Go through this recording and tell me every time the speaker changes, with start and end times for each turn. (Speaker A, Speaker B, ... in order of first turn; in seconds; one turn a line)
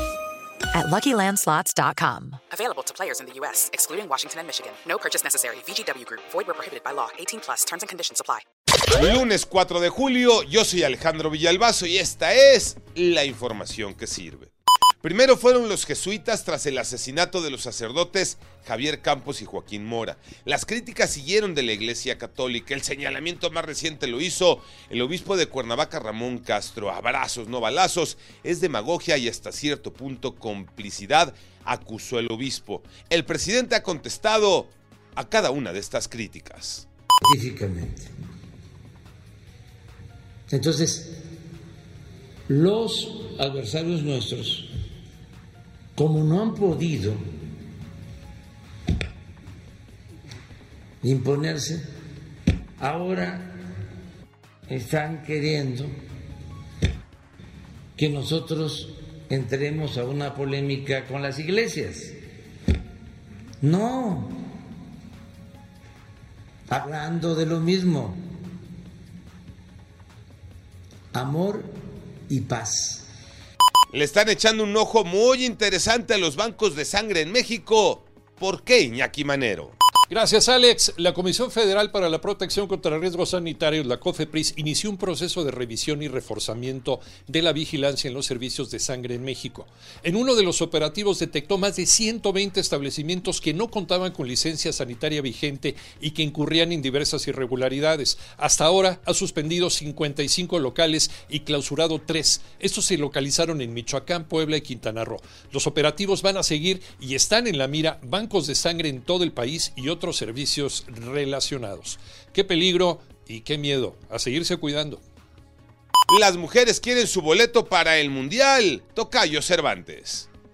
Speaker A: 0.7-8.4
Speaker B: 8.9-36.9
Speaker C: 37.2-38.1
Speaker C: 40.5-41.2
Speaker C: 42.5-44.7
Speaker C: 46.0-47.2
Speaker C: 51.0-51.8
Speaker C: 52.8-53.6
Speaker C: 54.7-55.9
Speaker C: 58.0-62.2
Speaker C: 63.6-64.3
Speaker C: 66.7-68.2
Speaker C: 71.1-71.7
Speaker C: 72.3-73.0
Speaker B: 73.9-79.7
Speaker D: 80.1-115.0
Speaker B: 116.1-120.3